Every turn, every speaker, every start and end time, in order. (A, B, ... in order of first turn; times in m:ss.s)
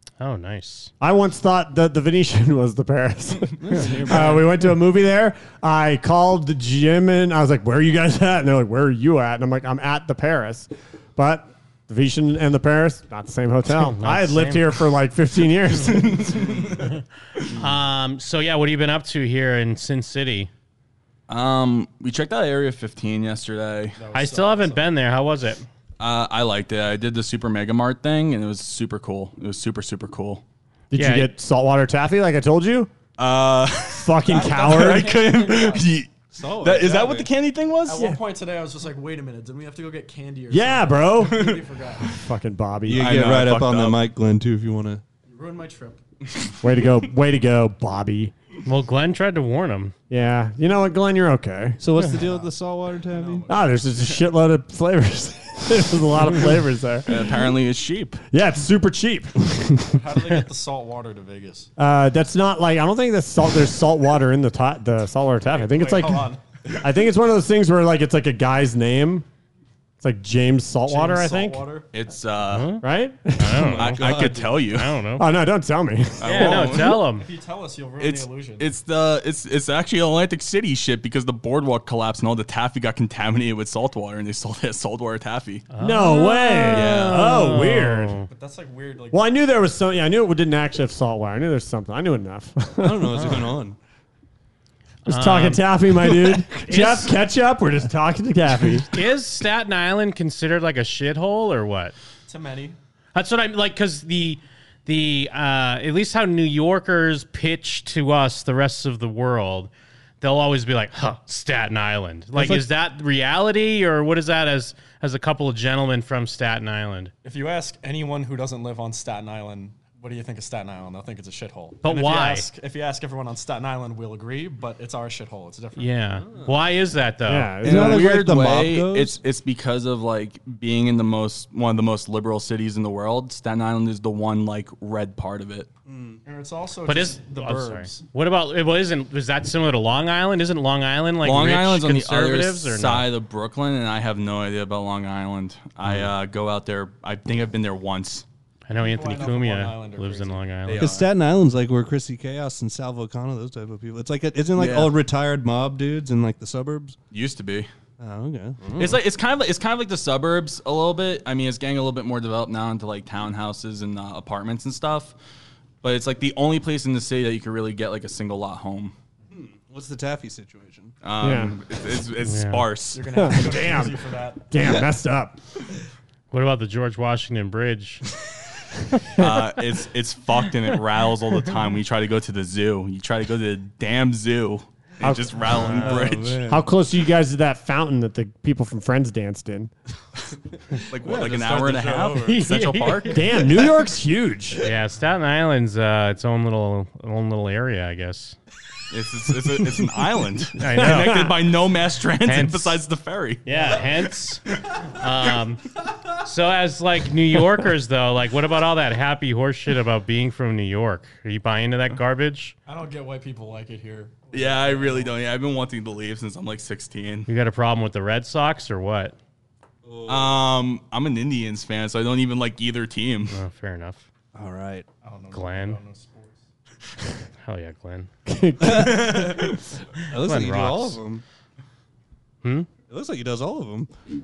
0:00.2-0:00.9 A
0:01.0-0:16.6 B
0:03.6-0:04.5 C
0:13.9-0:14.7 A
0:16.1-0:16.5 D
0:17.5-0:20.5 A
0:21.3-0:24.0 D
0:24.0-0:24.9 E
0:24.1-0:25.6 A
0:26.0-0:30.4 D
0:30.9-0:32.9 B
0:30.9-0:31.3 A
0:33.2-0:38.1 D
0:33.9-0:35.2 B
0:34.2-0:35.9 E
0:36.3-0:37.3 C
0:37.8-0:42.1 E
0:40.5-0:41.5 B
0:42.1-0:43.2 B
0:42.8-0:45.0 C
0:42.9-0:44.0 D
0:45.2-0:46.0 E
0:46.6-0:48.3 B
0:48.6-0:49.9 A
0:50.1-0:51.8 B
0:51.8-0:53.5 C
0:52.1-0:53.8 E
0:53.5-0:57.3 B
0:57.0-0:58.2 D
0:58.3-0:59.8 B
0:59.9-1:01.7 E
1:01.8-1:06.3 B
1:05.5-1:06.4 E
1:06.8-1:09.2 B
1:10.0-1:11.6 B
1:10.8-1:11.9 E
1:11.9-1:12.7 D
1:12.5-1:12.8 A
1:12.8-1:13.8 B
1:13.4-1:14.1 A
1:13.7-1:14.5 C
1:13.8-1:15.0 D
1:14.6-1:15.2 A
1:15.2-1:16.3 B
1:16.2-1:17.0 D
1:16.2-1:17.2 A
1:16.4-1:18.7 E
1:18.0-1:25.6 D
1:25.7-1:28.3 A
1:25.8-1:28.2 B
1:26.7-1:27.2 D
1:28.3-1:29.3 E
1:29.1-1:33.3 B
1:32.8-1:33.8 C
1:33.1-1:33.5 A
1:35.0-1:37.1 A
1:35.1-1:38.9 B
1:38.9-1:41.9 A
1:42.3-1:42.8 E
1:43.1-1:57.1 A
1:57.2-2:05.9 E
2:01.8-2:02.5 A
2:05.8-2:07.6 A
2:06.2-2:06.6 C
2:07.3-2:08.1 B
2:07.6-2:09.2 C
2:07.6-2:15.7 D
2:15.9-2:16.2 C
2:16.2-2:18.0 E
2:16.8-2:23.1 A
2:21.2-2:28.2 D
2:25.8-2:26.1 C
2:28.7-2:30.9 A
2:28.7-2:30.4 E
2:30.7-2:37.0 C
2:30.7-2:31.1 D
2:34.6-2:34.9 D
2:37.1-2:37.7 D
2:38.0-2:39.0 C
2:38.8-2:45.1 D
2:45.8-2:48.9 D
2:49.3-2:50.9 C
2:51.0-2:53.2 D
2:51.2-2:51.6 B
2:52.2-2:52.7 A
2:52.9-2:54.5 E
2:53.1-2:54.0 B
2:54.5-2:55.4 B
2:56.3-2:58.0 A
2:59.2-3:06.4 D
3:05.0-3:09.7 B
3:05.6-3:06.6 C
3:10.9-3:13.3 D
3:11.0-3:12.4 C
3:12.2-3:13.2 A
3:13.1-3:14.6 B
3:14.6-3:18.4 A
3:18.9-3:23.7 D
3:20.6-3:21.2 A
3:20.7-3:21.3 B
3:22.2-3:22.8 A
3:23.4-3:25.6 A
3:23.5-3:23.8 E
3:26.2-3:32.5 A
3:32.7-3:35.1 E
3:34.3-3:37.3 D
3:37.3-3:39.1 A
3:39.8-3:40.4 C
3:40.1-3:43.4 D
3:43.3-3:44.0 A
3:44.3-3:44.8 C
3:45.0-3:46.4 E
3:45.3-3:45.8 A
3:47.4-3:48.1 A
3:48.2-3:49.5 B
3:48.6-3:49.5 C
3:50.1-3:51.2 C
3:50.2-3:51.0 A
3:52.4-3:52.7 A
3:52.9-3:53.9 C